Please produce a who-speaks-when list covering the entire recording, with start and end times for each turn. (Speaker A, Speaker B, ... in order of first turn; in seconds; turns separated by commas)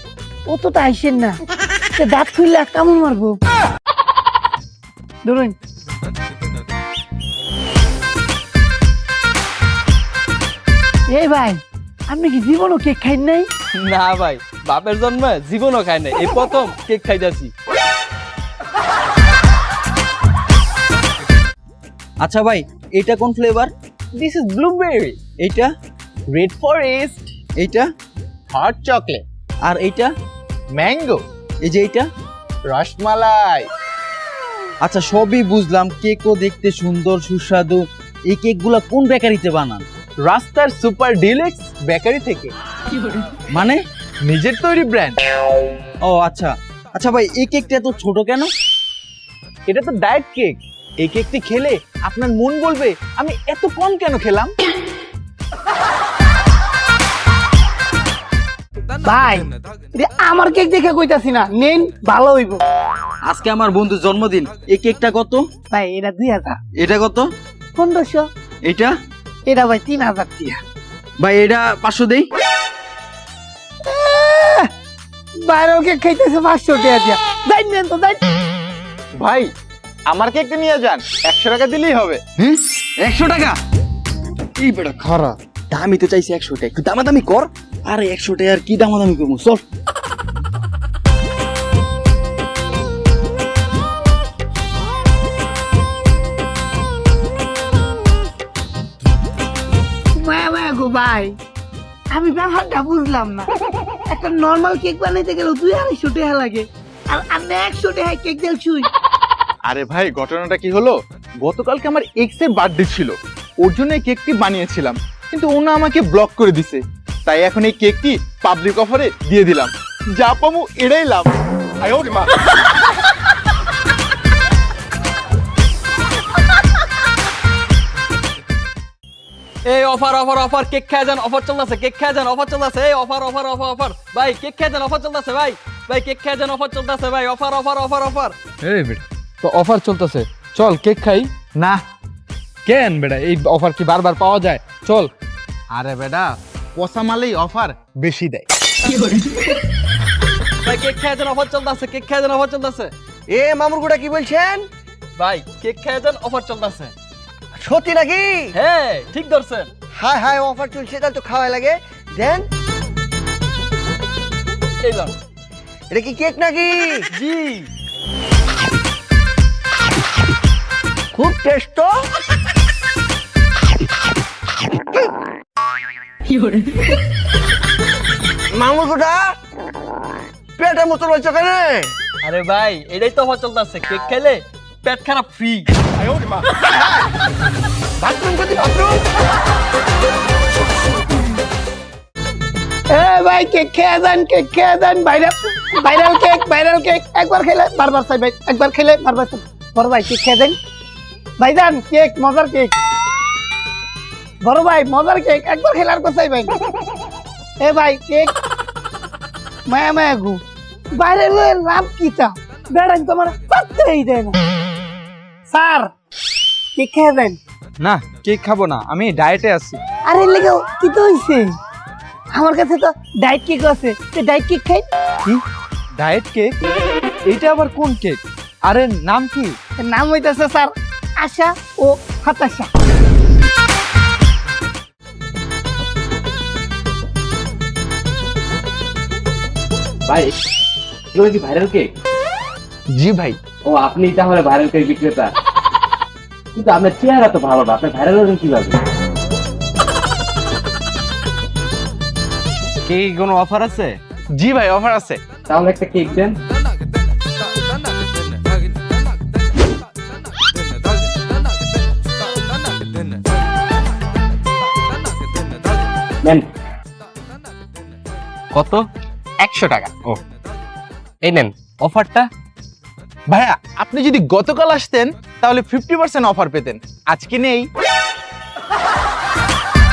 Speaker A: 0.5-1.4, Speaker A: 1.9-3.4, Speaker A: 5.2-5.5, Speaker A: 11.1-13.5, Speaker B: 13.8-17.5, Speaker C: 22.2-25.7, Speaker C: 27.6-27.9, Speaker C: 28.5-30.1, Speaker D: 28.6-29.1, Speaker D: 30.8-31.2, Speaker C: 31.6-32.1, Speaker D: 32.7-33.6, Speaker C: 34.8-39.9, Speaker D: 40.2-42.5, Speaker C: 43.5-43.8, Speaker D: 44.2-45.2, Speaker C: 46.0-48.5, Speaker D: 49.7-54.5, Speaker A: 59.0-62.6, Speaker C: 63.3-65.5, Speaker A: 65.7-66.6, Speaker C: 66.8-67.3, Speaker A: 67.8-68.3, Speaker C: 68.6-68.9, Speaker A: 69.5-70.6, Speaker C: 71.2-72.2, Speaker A: 73.8-74.7, Speaker A: 75.5-78.2, Speaker D: 79.2-79.5, Speaker D: 80.1-82.2, Speaker C: 82.4-83.6, Speaker C: 84.6-89.6, Speaker A: 100.2-101.3, Speaker A: 102.1-103.5, Speaker A: 104.1-108.9, Speaker D: 109.7-121.3, Speaker B: 129.7-138.3, Speaker E: 138.6-141.3, Speaker D: 141.6-141.8, Speaker E: 142.7-145.1, Speaker D: 145.7-148.5, Speaker B: 150.6-152.9, Speaker F: 153.3-154.6, Speaker B: 155.2-156.9, Speaker F: 157.6-158.5, Speaker B: 158.5-159.7, Speaker F: 160.0-162.5, Speaker B: 164.8-165.1, Speaker F: 165.9-167.1, Speaker B: 167.1-167.7, Speaker F: 171.1-172.0, Speaker F: 178.5-179.2, Speaker F: 180.6-181.9, Speaker B: 182.2-185.7, Speaker F: 186.2-187.1, Speaker F: 188.0-189.0, Speaker A: 192.9-200.6, Speaker A: 201.4-202.7, Speaker A: 204.4-206.5, Speaker A: 207.6-208.3, Speaker A: 209.7-210.4, Speaker A: 210.9-214.4, Speaker A: 215.5-215.9, Speaker A: 216.8-217.4, Speaker E: 217.8-219.8, Speaker A: 220.1-221.5, Speaker A: 222.3-224.9, Speaker E: 226.0-226.5, Speaker E: 227.3-229.6, Speaker A: 229.8-232.7, Speaker G: 240.1-240.3, Speaker G: 241.1-241.9, Speaker D: 242.9-243.4, Speaker G: 243.6-245.3, Speaker G: 246.5-248.8, Speaker C: 252.8-254.0, Speaker D: 254.3-255.2, Speaker G: 255.5-256.4, Speaker C: 269.4-269.9, Speaker G: 271.2-271.5, Speaker C: 271.8-272.2, Speaker D: 273.3-277.7